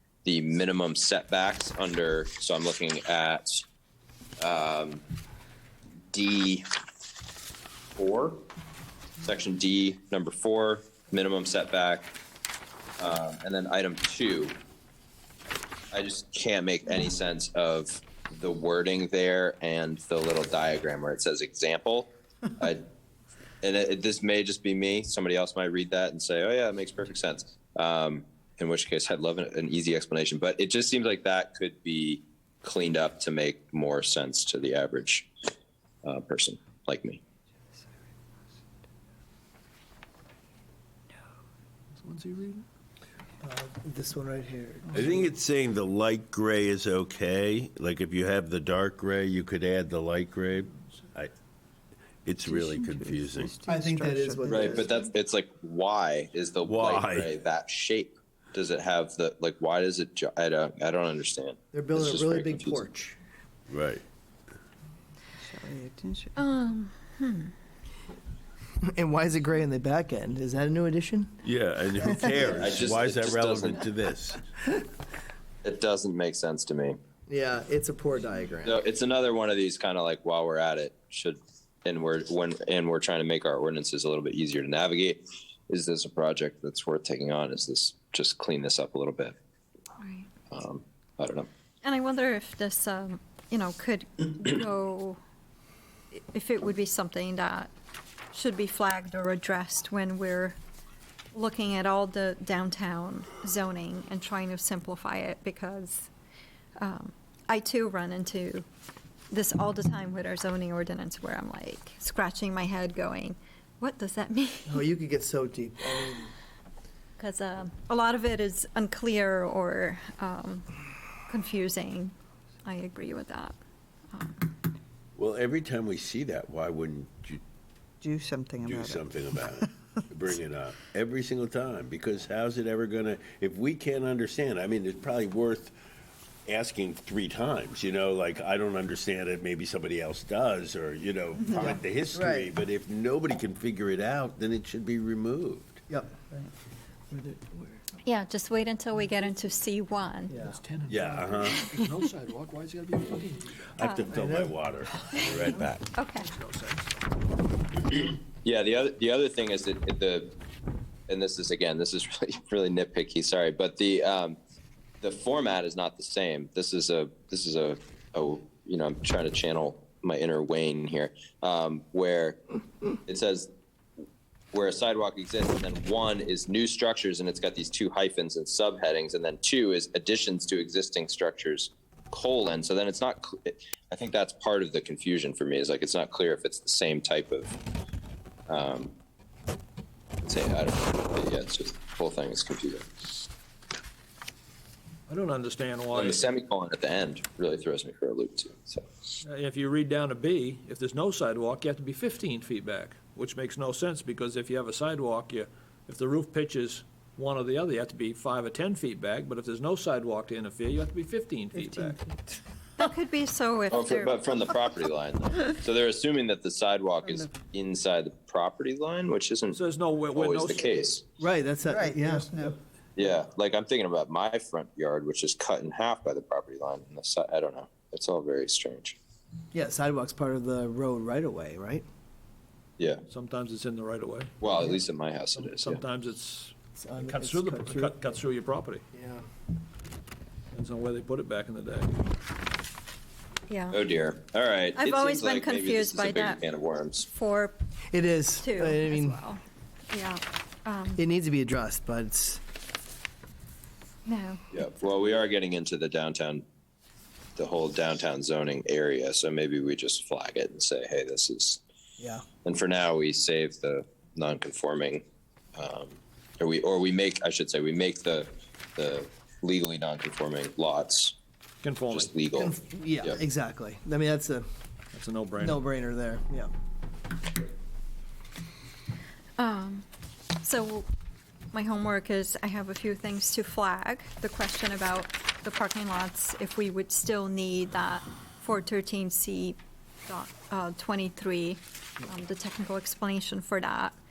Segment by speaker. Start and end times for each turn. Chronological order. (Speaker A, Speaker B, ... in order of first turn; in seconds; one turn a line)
Speaker A: 0.2-3.6
Speaker A: 4.4-5.0
Speaker A: 6.1-6.6
Speaker A: 8.0-8.4
Speaker A: 9.2-12.1
Speaker A: 13.0-14.6
Speaker A: 15.9-22.8
Speaker A: 23.6-35.3
Speaker A: 36.0-37.2
Speaker B: 41.9-42.6
Speaker C: 43.4-45.3
Speaker D: 44.9-51.3
Speaker D: 52.2-53.6
Speaker E: 52.4-54.9
Speaker C: 53.7-54.9
Speaker A: 54.5-62.8
Speaker D: 56.6-57.3
Speaker C: 61.7-63.2
Speaker D: 63.7-64.0
Speaker E: 65.4-66.4
Speaker F: 66.4-67.5
Speaker C: 68.8-71.4
Speaker D: 71.4-74.4
Speaker C: 72.0-72.8
Speaker A: 72.4-73.8
Speaker A: 75.6-77.0
Speaker C: 77.3-78.8
Speaker A: 78.6-89.3
Speaker F: 90.0-90.3
Speaker A: 90.5-91.5
Speaker F: 91.8-95.2
Speaker F: 96.1-97.7
Speaker F: 98.3-100.5
Speaker F: 101.3-106.1
Speaker F: 106.8-108.6
Speaker F: 109.3-114.9
Speaker C: 114.7-116.3
Speaker F: 117.2-120.7
Speaker F: 121.3-122.1
Speaker F: 122.6-123.6
Speaker F: 124.1-124.5
Speaker D: 125.2-127.4
Speaker E: 128.0-129.5
Speaker D: 128.6-135.7
Speaker D: 136.4-145.8
Speaker C: 141.6-142.5
Speaker C: 145.9-146.5
Speaker C: 147.1-147.8
Speaker F: 148.0-150.4
Speaker C: 150.3-150.6
Speaker B: 150.4-153.6
Speaker D: 150.9-151.7
Speaker D: 153.8-155.9
Speaker F: 153.8-154.1
Speaker C: 154.1-155.6
Speaker F: 155.9-156.3
Speaker B: 156.1-157.0
Speaker A: 158.1-160.3
Speaker A: 161.1-164.4
Speaker A: 165.0-172.4
Speaker A: 173.1-173.5
Speaker A: 174.5-187.5
Speaker A: 188.5-188.9
Speaker A: 190.2-192.9
Speaker B: 195.1-196.2
Speaker A: 195.9-198.9
Speaker B: 199.2-212.0
Speaker F: 212.8-214.2
Speaker A: 213.7-219.6
Speaker B: 219.5-220.7
Speaker A: 220.1-221.0
Speaker C: 221.2-222.5
Speaker E: 221.7-222.4
Speaker A: 222.9-229.0
Speaker C: 229.5-231.8
Speaker A: 232.8-233.0
Speaker B: 233.1-234.4
Speaker A: 234.4-235.8
Speaker B: 235.3-238.8
Speaker C: 236.8-238.0
Speaker C: 238.9-239.2
Speaker B: 240.5-242.0
Speaker F: 243.5-243.8
Speaker A: 243.7-247.1
Speaker F: 244.8-246.4
Speaker F: 247.0-247.5
Speaker C: 247.9-249.2
Speaker F: 248.4-251.0
Speaker C: 250.9-252.4
Speaker F: 254.1-254.4
Speaker A: 254.5-256.4
Speaker A: 257.4-261.6
Speaker A: 262.4-265.0
Speaker A: 265.5-271.1
Speaker B: 271.6-272.1
Speaker A: 271.9-273.2
Speaker C: 272.4-274.4
Speaker B: 274.9-275.6
Speaker C: 275.4-276.5
Speaker F: 279.4-279.8
Speaker F: 280.4-280.9
Speaker F: 281.5-293.9